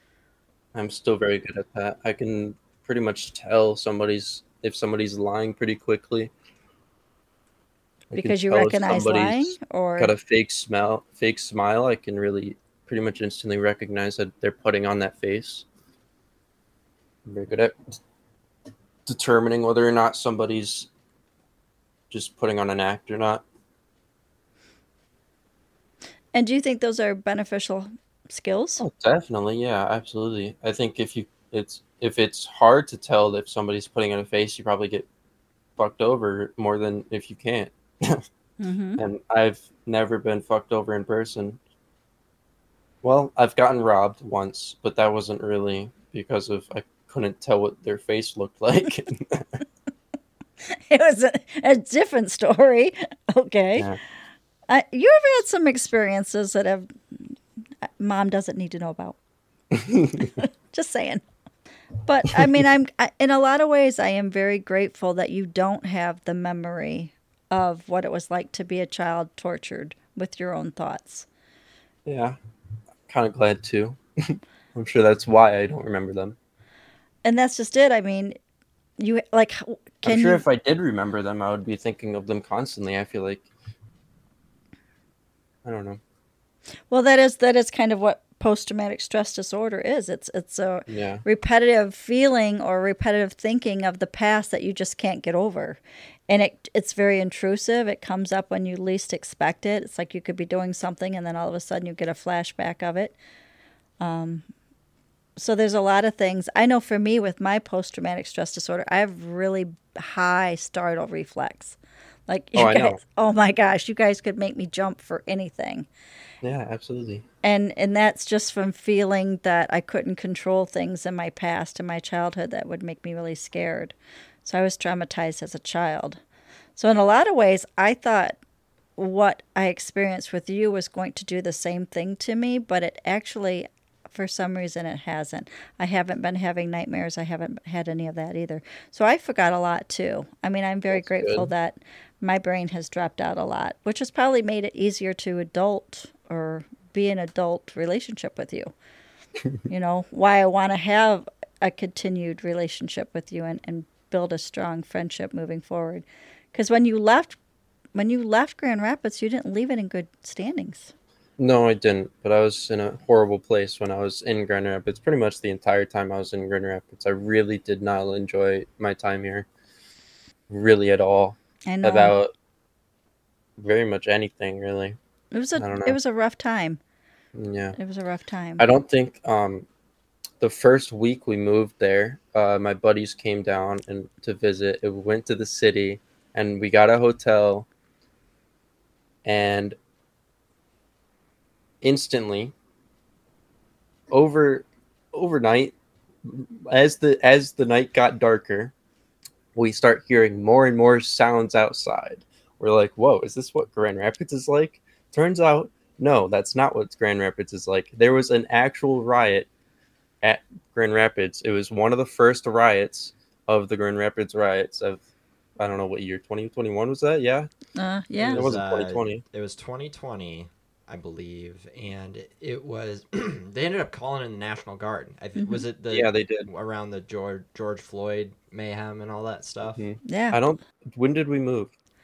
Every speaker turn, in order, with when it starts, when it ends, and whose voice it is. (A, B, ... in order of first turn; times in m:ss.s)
0:00.7-0:06.3 A
0:08.1-0:15.6 A
0:08.1-0:10.1 B
0:17.2-0:18.0 A
0:19.1-0:20.9 A
0:22.1-0:23.4 A
0:26.3-0:28.8 B
0:28.8-0:35.1 A
0:35.8-0:38.2 A
0:38.6-0:39.0 B
0:39.0-0:41.6 A
0:43.0-0:49.6 A
0:50.6-0:53.9 B
0:54.7-0:59.2 B
0:59.7-1:00.3 A
1:00.2-1:01.2 B
1:02.0-1:11.3 B
1:12.0-1:12.4 A
1:13.1-1:16.4 A
1:17.2-1:18.4 B
1:19.0-1:20.4 B
1:20.0-1:23.4 A
1:25.6-1:26.0 A
1:26.9-1:43.2 B
1:30.9-1:31.2 A
1:44.0-1:44.5 B
1:45.4-1:51.8 B
1:52.3-1:55.9 B
1:52.6-1:53.0 A
1:56.4-1:57.2 A
1:57.4-2:06.2 B
2:06.8-2:08.4 B
2:09.0-2:28.7 B
2:20.9-2:21.5 A
2:29.7-2:37.4 B
2:38.0-2:40.9 B
2:41.4-2:49.5 A
2:50.5-2:52.3 A
2:51.7-2:52.2 B
2:53.6-2:55.0 A
2:55.3-2:56.8 B
2:55.6-2:56.0 A
2:57.3-2:57.8 A
2:57.8-2:58.6 B
2:58.6-2:59.7 A
3:00.4-3:07.7 A
3:09.2-3:09.8 A
3:11.8-3:12.6 A
3:14.1-3:18.7 A
3:19.6-3:29.5 A
3:30.2-3:35.0 A
3:35.6-3:37.5 A
3:37.8-3:38.5 B
3:38.2-3:49.8 C
3:38.3-3:39.2 A
3:45.4-3:45.6 B
3:45.9-3:46.5 A
3:49.7-3:51.7 A
3:50.1-3:50.4 B